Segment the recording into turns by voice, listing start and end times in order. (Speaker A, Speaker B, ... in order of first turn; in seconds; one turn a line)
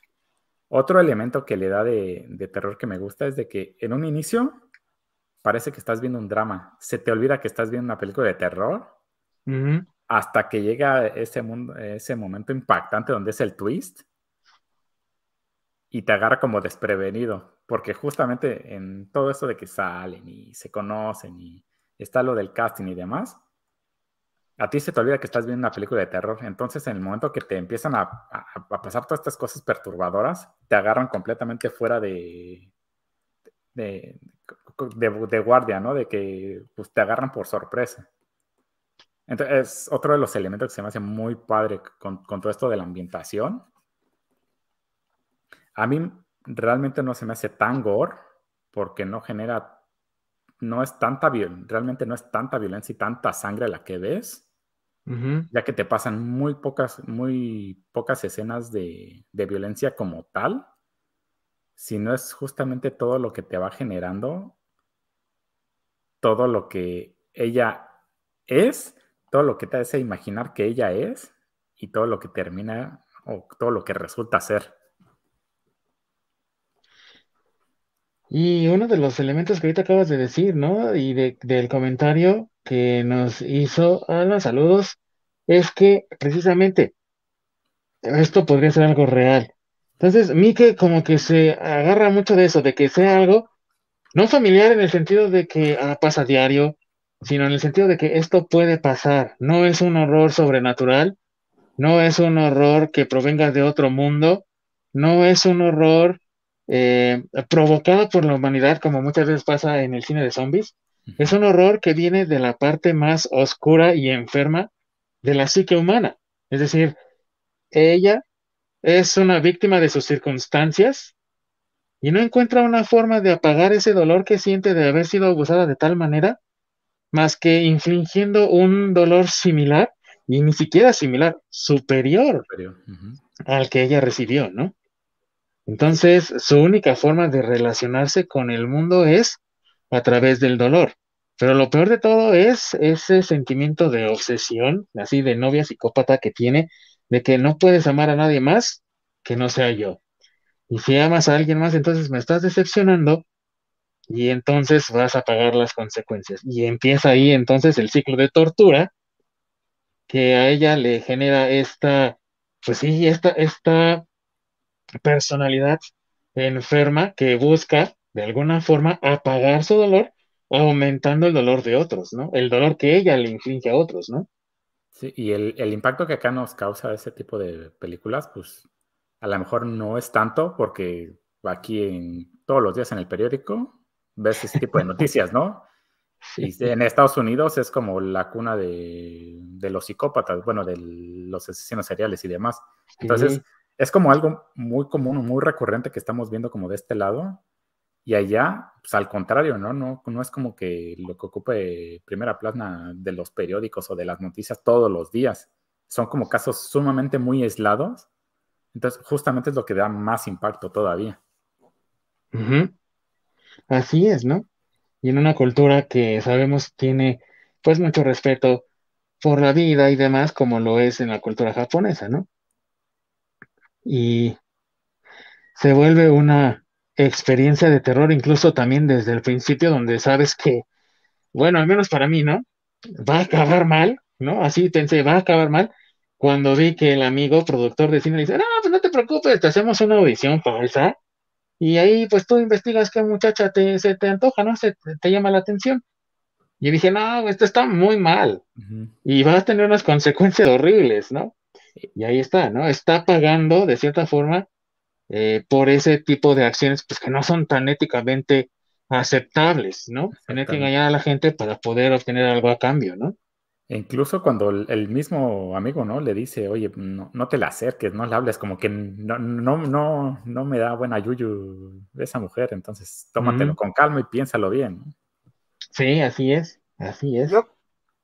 Speaker A: 0.7-4.6
Speaker A: 5.4-8.9
Speaker B: 9.5-9.8
Speaker A: 10.1-14.0
Speaker A: 15.9-23.4
Speaker A: 24.6-32.7
Speaker A: 33.7-38.1
Speaker A: 39.3-43.6
Speaker A: 45.7-48.2
Speaker A: 48.7-49.8
Speaker A: 50.6-54.4
Speaker B: 55.1-55.5
Speaker A: 55.5-60.7
Speaker A: 61.8-64.5
Speaker A: 66.2-67.9
Speaker A: 68.5-74.7
Speaker B: 78.3-86.9
Speaker B: 88.0-93.5
Speaker B: 94.1-101.2
Speaker B: 101.8-114.7
Speaker A: 111.1-111.3
Speaker B: 115.2-117.0
Speaker B: 117.7-118.2
Speaker B: 118.8-121.1
Speaker B: 122.0-126.4
Speaker B: 127.1-132.4
Speaker A: 132.5-133.2
Speaker B: 133.5-134.7
Speaker B: 135.7-139.4
Speaker B: 139.9-150.0
Speaker B: 150.7-153.2
Speaker B: 154.1-158.9
Speaker B: 160.1-164.1
Speaker B: 165.0-165.8
Speaker B: 166.3-174.3
Speaker A: 174.9-178.6
Speaker A: 179.2-185.7
Speaker B: 186.3-186.7
Speaker A: 186.4-197.4
Speaker B: 193.0-193.4
Speaker A: 198.0-208.1
Speaker A: 208.7-211.2
Speaker B: 212.3-212.7
Speaker B: 213.7-214.5
Speaker B: 215.0-218.6
Speaker B: 219.2-222.3
Speaker B: 223.8-224.4
Speaker B: 225.5-230.7
Speaker B: 231.3-232.4
Speaker B: 233.0-240.9
Speaker B: 241.6-245.8
Speaker B: 246.6-248.4
Speaker A: 248.6-248.9
Speaker B: 249.0-251.3
Speaker B: 251.9-254.5
Speaker B: 255.1-263.1
Speaker A: 260.2-260.7
Speaker A: 263.7-274.9
Speaker B: 273.2-273.6
Speaker B: 275.7-277.4